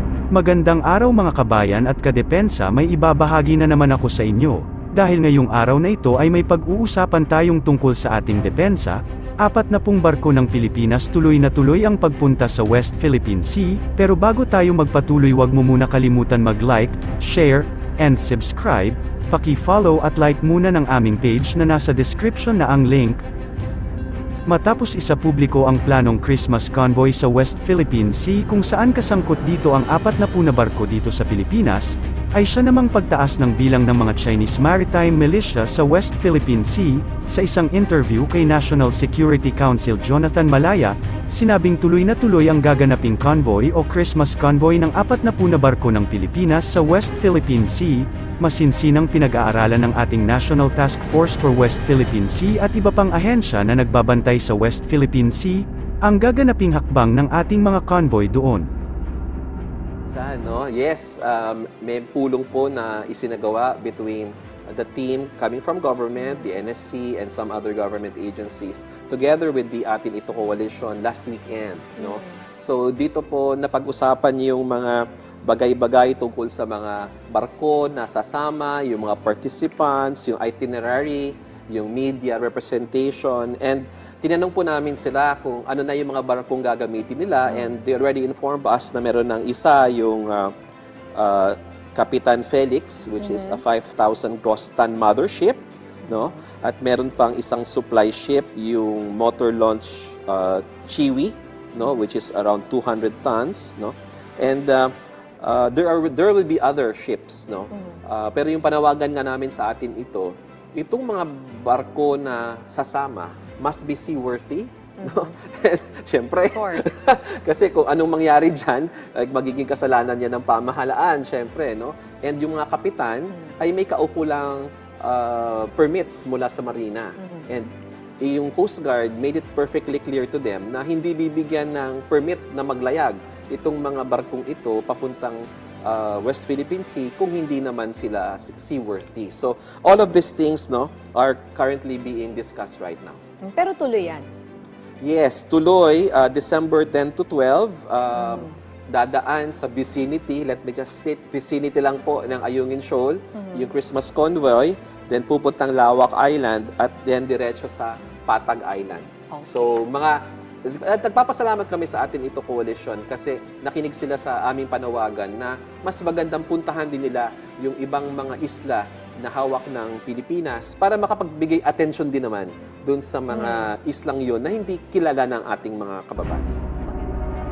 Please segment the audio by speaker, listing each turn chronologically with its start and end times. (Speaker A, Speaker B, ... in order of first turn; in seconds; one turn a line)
Speaker A: 0.3-23.2
Speaker A: 24.5-58.7
Speaker B: 60.1-90.5
Speaker C: 66.2-66.5
Speaker C: 72.0-72.4
Speaker B: 91.2-143.2
Speaker C: 93.2-93.6
Speaker C: 96.1-96.4
Speaker C: 107.7-108.0
Speaker C: 115.0-115.3
Speaker C: 116.5-117.0
Speaker C: 127.2-127.5
Speaker C: 143.4-144.3
Speaker B: 145.0-176.5
Speaker C: 148.1-148.5
Speaker C: 153.3-153.7
Speaker C: 159.3-159.6
Speaker C: 173.3-173.7
Speaker C: 176.9-177.2